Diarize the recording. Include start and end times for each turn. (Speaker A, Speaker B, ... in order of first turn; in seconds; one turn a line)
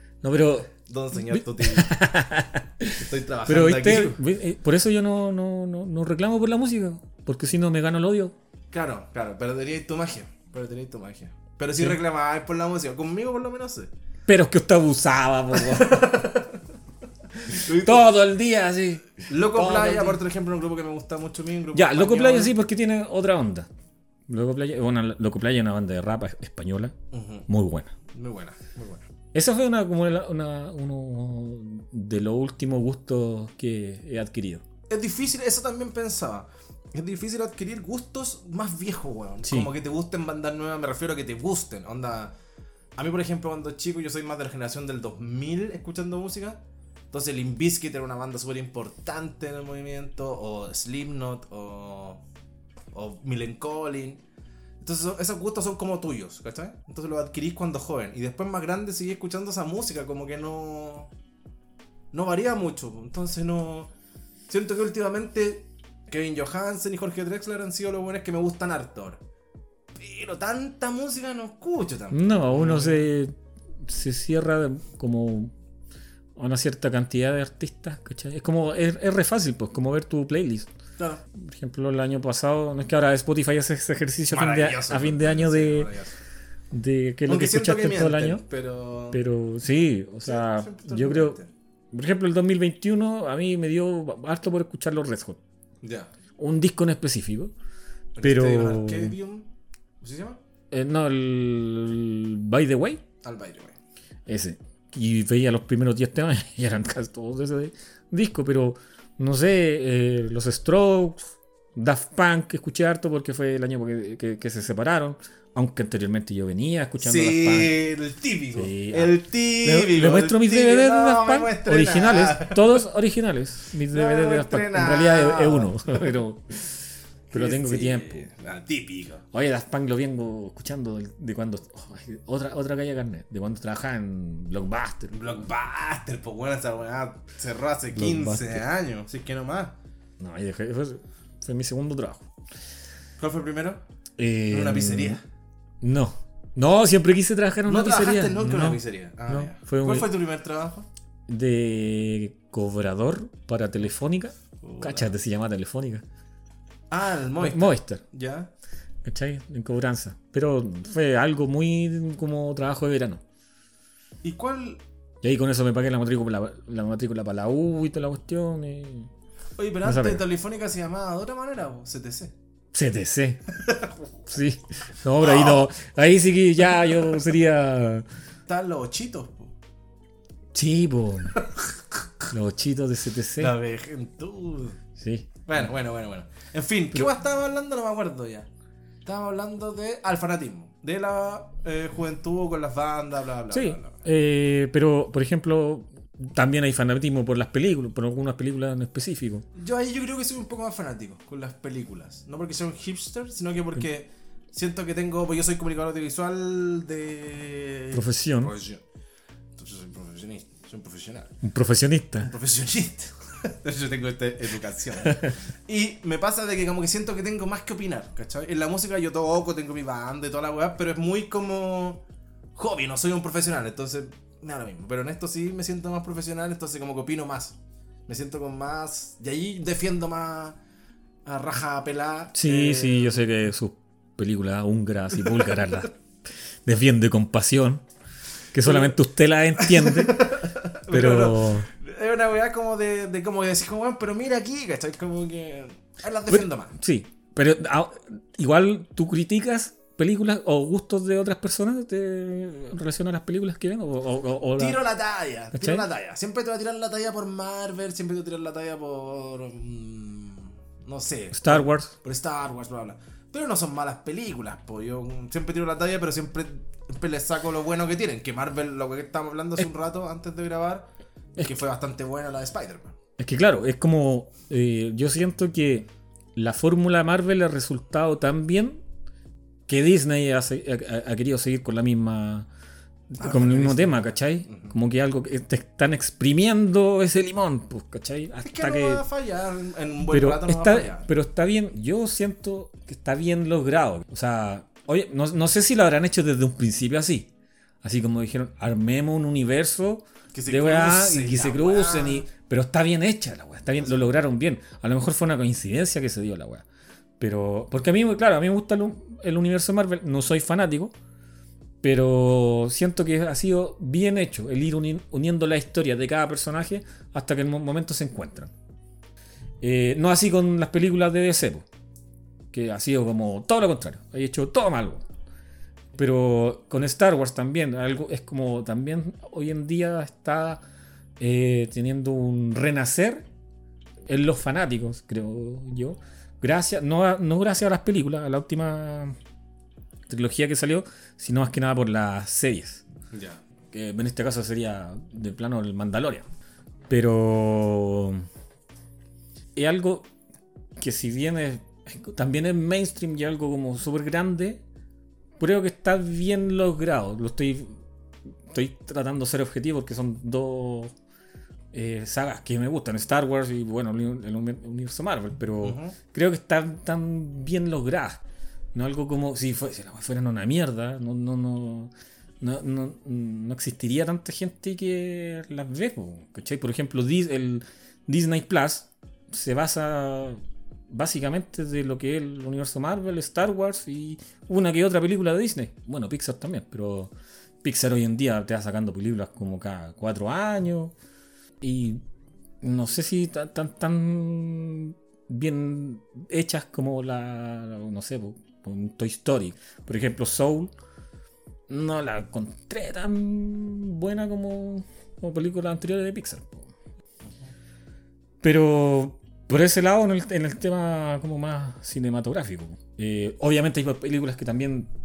Speaker A: 0.2-8.3
Speaker B: 0.8-1.9
Speaker B: 3.0-4.2
Speaker B: 8.7-13.9
Speaker A: 14.3-16.1
Speaker B: 15.5-16.6
Speaker B: 17.3-18.1
Speaker A: 17.5-20.2
Speaker B: 19.3-22.5
Speaker A: 21.7-23.7
Speaker A: 24.3-26.9
Speaker B: 27.1-27.5
Speaker A: 27.5-27.9
Speaker B: 28.1-29.1
Speaker A: 29.3-34.6
Speaker B: 34.9-42.3
Speaker A: 39.4-39.7
Speaker B: 43.0-46.6
Speaker B: 47.1-52.2
Speaker B: 52.9-54.2
Speaker B: 54.8-61.1
Speaker B: 62.1-63.9
Speaker B: 64.5-69.2
Speaker B: 69.9-73.1
Speaker A: 72.1-75.5
Speaker A: 76.3-80.7
Speaker B: 81.0-81.2
Speaker A: 81.3-85.9
Speaker B: 84.3-86.1
Speaker A: 86.7-88.4
Speaker B: 87.3-89.2
Speaker A: 89.1-91.4
Speaker B: 90.2-91.5
Speaker A: 91.9-95.4
Speaker B: 95.8-96.1
Speaker A: 96.4-97.5
Speaker B: 98.1-99.5
Speaker A: 98.2-99.1
Speaker B: 100.0-100.4
Speaker A: 100.7-103.0
Speaker B: 103.2-103.8
Speaker A: 104.3-117.8
Speaker B: 117.0-122.8
Speaker A: 118.5-126.7
Speaker B: 123.9-126.1
Speaker A: 127.3-128.3
Speaker B: 127.3-129.2
Speaker A: 129.3-135.1
Speaker B: 135.1-139.8
Speaker A: 137.9-138.6
Speaker A: 140.2-142.2
Speaker B: 143.2-143.8
Speaker A: 144.2-145.2
Speaker B: 144.5-145.2
Speaker A: 145.8-150.1
Speaker B: 147.7-150.9
Speaker A: 151.3-156.0
Speaker B: 154.6-155.1
Speaker B: 156.9-158.5
Speaker A: 157.4-158.0
Speaker A: 159.0-163.2
Speaker B: 164.2-164.8
Speaker A: 165.2-169.1
Speaker B: 169.6-172.3
Speaker A: 169.8-170.2
Speaker A: 172.7-173.4
Speaker B: 173.6-173.9
Speaker A: 174.3-178.1
Speaker B: 175.2-175.7
Speaker B: 178.5-179.5
Speaker A: 180.5-181.4
Speaker B: 181.4-182.3
Speaker A: 182.3-183.5
Speaker B: 183.4-184.8
Speaker A: 185.0-185.6
Speaker B: 185.5-188.5
Speaker B: 189.1-194.0
Speaker A: 193.5-199.4
Speaker B: 199.5-208.8
Speaker A: 207.9-208.5
Speaker B: 209.6-211.3
Speaker A: 211.4-212.3
Speaker B: 212.2-222.0
Speaker B: 222.6-230.6
Speaker B: 231.2-233.2
Speaker A: 232.3-235.9
Speaker B: 235.3-235.7
Speaker A: 236.6-237.8
Speaker A: 238.5-240.3
Speaker B: 238.6-238.9
Speaker B: 239.6-246.7
Speaker A: 240.9-241.7
Speaker A: 246.3-254.8
Speaker B: 254.6-272.9
Speaker A: 255.5-255.8
Speaker A: 261.3-261.9
Speaker A: 273.2-278.8
Speaker A: 279.7-282.5
Speaker A: 283.1-289.0
Speaker B: 283.2-284.7
Speaker B: 288.4-291.1
Speaker A: 290.1-297.3
Speaker A: 297.8-306.6
Speaker B: 300.3-302.3
Speaker A: 307.2-310.9
Speaker A: 311.8-318.5
Speaker A: 319.6-321.6
Speaker A: 322.5-325.0
Speaker A: 325.9-330.6
Speaker A: 331.2-333.3
Speaker A: 334.1-339.1
Speaker A: 340.1-342.8
Speaker B: 343.1-343.4
Speaker A: 343.7-346.3
Speaker A: 346.9-348.3
Speaker A: 349.5-350.1
Speaker A: 350.8-354.6
Speaker A: 355.4-357.8
Speaker A: 358.4-360.9
Speaker A: 361.7-368.2
Speaker B: 365.6-366.0
Speaker A: 368.7-390.9
Speaker A: 391.6-392.0
Speaker A: 392.6-400.7
Speaker A: 401.7-406.7
Speaker A: 408.4-414.9